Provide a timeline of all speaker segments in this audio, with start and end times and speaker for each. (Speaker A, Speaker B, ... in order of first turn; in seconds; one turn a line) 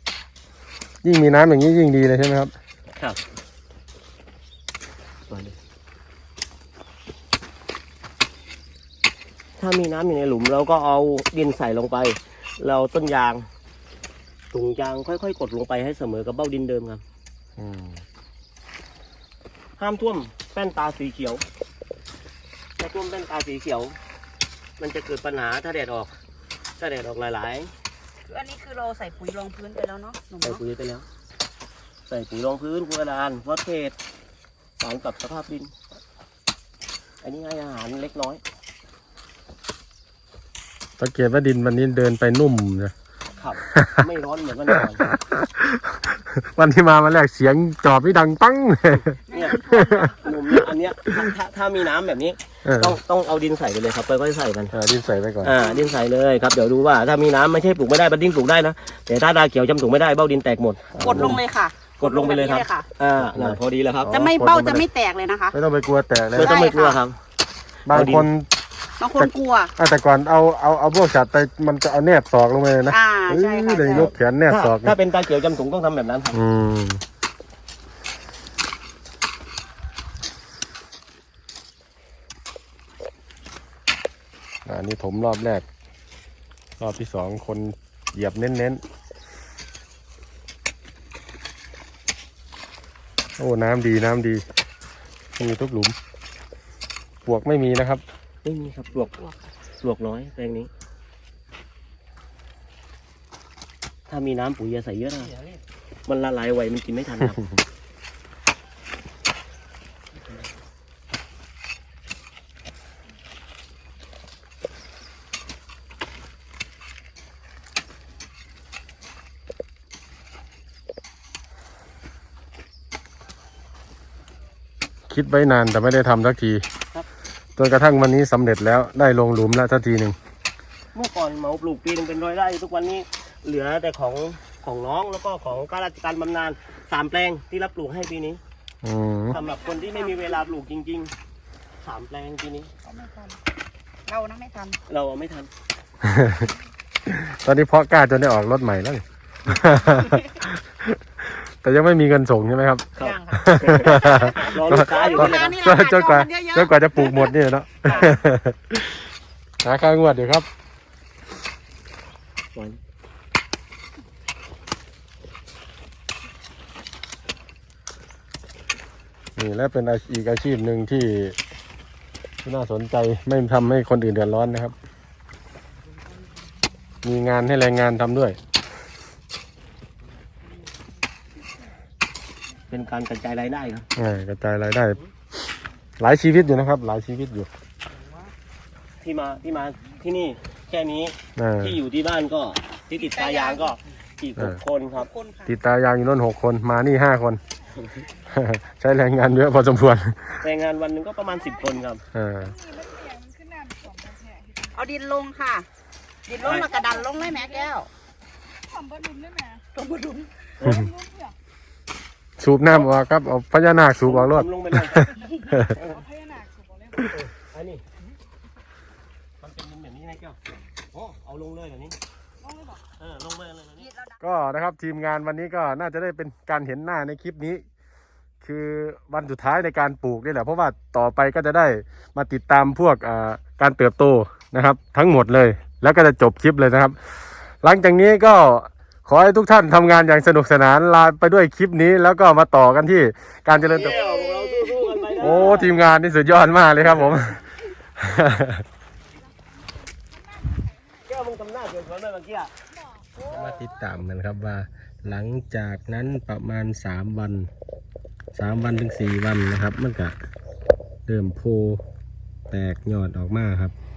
Speaker A: 1.0-2.5
Speaker B: 5.3-5.5
Speaker B: 9.6-13.5
Speaker B: 14.5-17.0
Speaker A: 17.6-18.0
Speaker B: 19.8-21.4
Speaker B: 22.8-24.0
Speaker B: 24.8-26.1
Speaker B: 26.8-27.7
Speaker C: 28.3-30.6
Speaker B: 30.4-31.1
Speaker B: 32.1-34.0
Speaker B: 34.8-35.7
Speaker B: 37.2-38.4
Speaker A: 41.0-42.9
Speaker B: 43.4-45.1
Speaker A: 43.7-44.0
Speaker A: 44.7-51.2
Speaker B: 49.3-54.7
Speaker C: 49.3-50.3
Speaker A: 52.6-53.0
Speaker A: 54.7-55.5
Speaker B: 55.4-61.4
Speaker C: 55.6-55.9
Speaker A: 60.9-61.4
Speaker C: 61.0-62.9
Speaker B: 62.0-64.1
Speaker A: 63.2-64.8
Speaker C: 64.1-65.5
Speaker A: 65.5-66.7
Speaker B: 66.3-67.2
Speaker C: 66.4-67.0
Speaker A: 67.9-68.5
Speaker B: 67.9-68.3
Speaker C: 69.0-69.7
Speaker A: 69.2-75.0
Speaker C: 72.9-74.1
Speaker B: 73.9-76.4
Speaker A: 76.3-77.0
Speaker A: 84.6-85.6
Speaker A: 86.8-88.8
Speaker A: 93.4-94.4
Speaker A: 95.4-96.0
Speaker A: 97.2-98.0
Speaker B: 98.4-100.7
Speaker B: 104.1-105.4
Speaker B: 106.1-107.4
Speaker A: 125.1-126.6
Speaker A: 127.6-130.2
Speaker B: 130.9-138.4
Speaker A: 138.8-139.3
Speaker B: 139.3-141.1
Speaker C: 139.3-140.4
Speaker B: 141.8-142.7
Speaker C: 142.8-143.4
Speaker C: 144.1-144.8
Speaker B: 144.9-145.5
Speaker A: 146.0-146.5
Speaker A: 147.1-159.0
Speaker C: 149.9-150.4
Speaker B: 152.9-155.6
Speaker C: 153.0-157.3
Speaker C: 157.8-158.2
Speaker A: 159.6-160.4
Speaker A: 169.3-171.4
Speaker A: 172.4-174.7
Speaker A: 177.0-178.4
Speaker B: 182.7-183.9
Speaker A: 183.9-185.0
Speaker A: 186.0-187.5
Speaker B: 189.0-195.1
Speaker A: 191.3-191.8
Speaker C: 192.9-193.7
Speaker C: 194.9-195.5
Speaker A: 195.4-197.4
Speaker A: 198.3-200.4
Speaker B: 200.4-202.0
Speaker A: 202.1-202.6
Speaker C: 203.0-204.2
Speaker C: 204.7-205.7
Speaker C: 206.3-207.9
Speaker B: 206.4-206.7
Speaker C: 209.0-210.5
Speaker A: 210.6-210.9
Speaker A: 212.4-215.8
Speaker B: 214.0-215.1
Speaker B: 215.7-216.0
Speaker C: 216.2-216.5
Speaker B: 216.9-217.8
Speaker B: 219.4-220.4
Speaker B: 220.9-221.9
Speaker B: 223.0-223.9
Speaker C: 223.8-224.2
Speaker A: 224.2-227.6
Speaker A: 228.4-237.1
Speaker A: 237.6-244.0
Speaker B: 243.7-245.8
Speaker C: 243.7-245.5
Speaker A: 245.2-248.6
Speaker B: 251.0-252.5
Speaker A: 253.2-257.5
Speaker A: 258.3-260.1
Speaker A: 261.1-261.8
Speaker A: 262.5-263.7